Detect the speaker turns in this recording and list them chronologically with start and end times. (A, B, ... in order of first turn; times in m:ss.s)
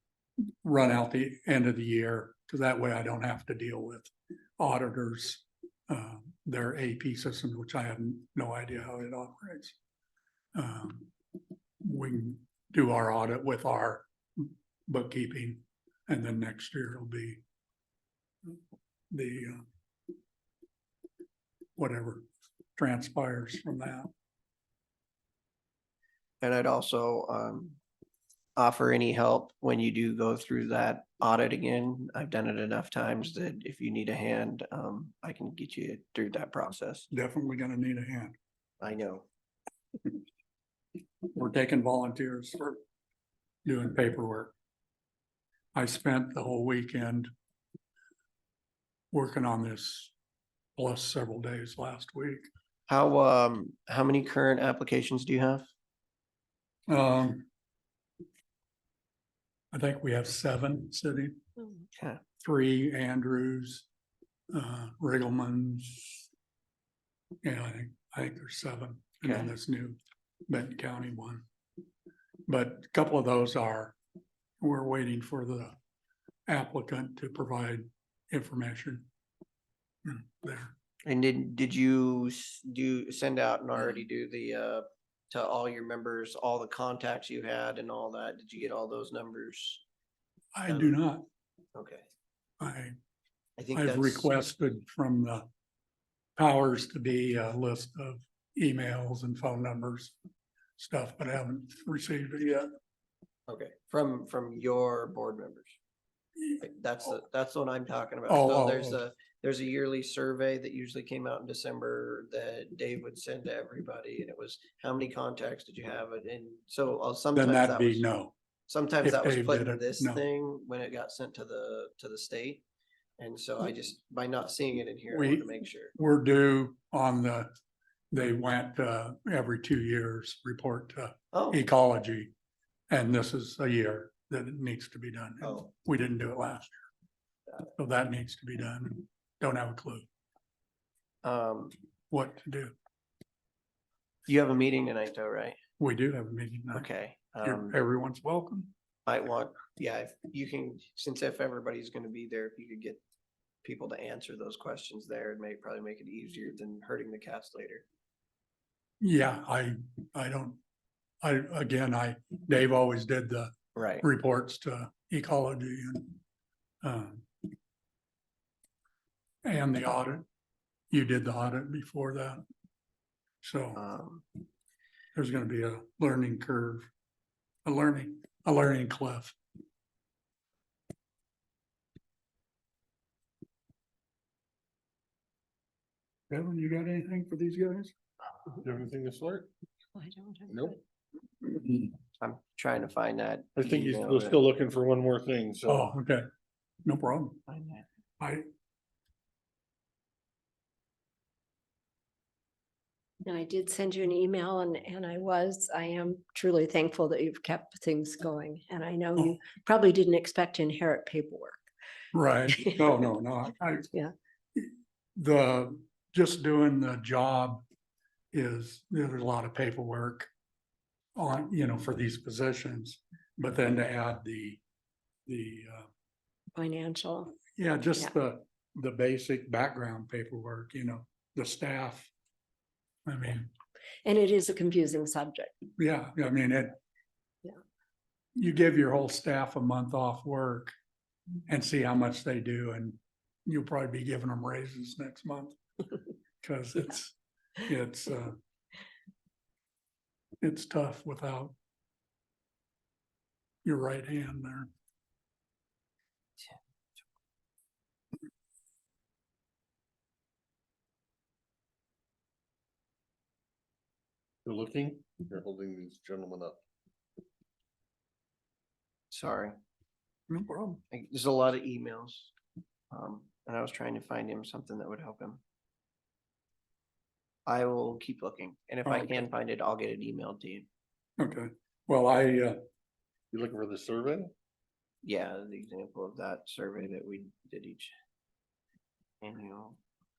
0:00.6-0:09.8 A
0:10.6-0:11.1 A
0:11.8-0:17.4 A
0:19.1-0:19.6 A
0:21.8-0:22.2 A
0:22.8-0:24.1 A
0:26.4-0:27.8 B
0:28.6-0:37.1 B
0:37.1-0:38.4 A
0:38.8-0:39.3 B
0:41.3-0:42.8 A
0:43.6-0:44.5 A
0:45.8-0:47.3 A
0:49.1-0:50.1 A
0:50.8-0:52.5 A
0:52.9-0:55.7 B
0:56.9-0:57.5 A
0:59.7-1:01.4 A
1:01.9-1:02.2 B
1:02.4-1:03.9 A
1:04.5-1:06.3 A
1:07.4-1:11.4 A
1:09.2-1:09.5 B
1:12.5-1:14.0 A
1:14.6-1:15.8 A
1:16.5-1:19.1 A
1:20.0-1:20.7 A
1:21.1-1:29.8 B
1:30.5-1:31.2 A
1:30.7-1:31.0 B
1:31.8-1:32.1 B
1:32.6-1:33.0 A
1:33.6-1:34.3 B
1:33.8-1:35.5 A
1:36.4-1:40.2 A
1:40.8-1:42.7 A
1:43.5-1:45.8 B
1:46.6-1:58.0 B
1:48.3-1:49.0 A
1:57.4-1:58.3 A
1:58.7-2:02.6 B
1:59.0-2:00.2 A
2:03.2-2:06.0 B
2:05.1-2:07.5 A
2:08.1-2:12.3 A
2:11.3-2:11.6 B
2:12.9-2:16.8 A
2:15.4-2:15.7 B
2:17.8-2:20.1 A
2:21.2-2:21.7 B
2:22.1-2:22.7 A
2:24.3-2:25.6 B
2:25.8-2:26.9 A
2:26.7-2:27.8 B
2:27.4-2:28.7 A
2:29.1-2:33.0 B
2:33.6-2:37.8 B
2:39.0-2:40.6 A
2:41.2-2:46.2 A
2:43.8-2:44.0 B
2:46.8-2:47.3 A
2:49.4-2:50.3 A
2:50.9-2:52.4 A
2:53.4-2:53.8 A
2:53.8-2:54.2 B
2:55.2-2:56.9 A
2:57.6-2:59.4 A
3:06.3-3:07.9 A
3:08.6-3:09.5 C
3:10.0-3:10.8 D
3:10.5-3:10.8 C
3:12.2-3:14.4 B
3:13.6-3:15.9 C
3:15.7-3:16.2 A
3:16.8-3:17.4 A
3:17.5-3:17.8 B
3:18.2-3:18.4 A
3:23.2-3:31.6 D
3:32.1-3:33.9 A
3:34.6-3:37.6 A
3:38.3-3:40.3 A
3:41.2-3:44.6 A
3:45.3-3:45.9 A
3:46.6-3:47.4 D
3:47.5-3:52.1 A
3:53.1-3:53.5 A
3:54.0-3:55.5 D
3:55.8-3:56.8 A
3:58.4-4:00.7 A
4:01.5-4:05.6 A
4:06.4-4:08.4 A
4:10.4-4:11.6 A
4:13.6-4:14.7 A
4:24.4-4:26.6 C
4:29.1-4:29.6 B
4:30.3-4:30.8 A
4:30.9-4:32.3 B
4:32.9-4:35.4 B
4:37.5-4:40.7 B
4:38.8-4:39.2 A
4:41.2-4:42.6 A
4:43.3-4:44.3 C
4:45.0-4:47.9 B
4:49.2-4:49.8 B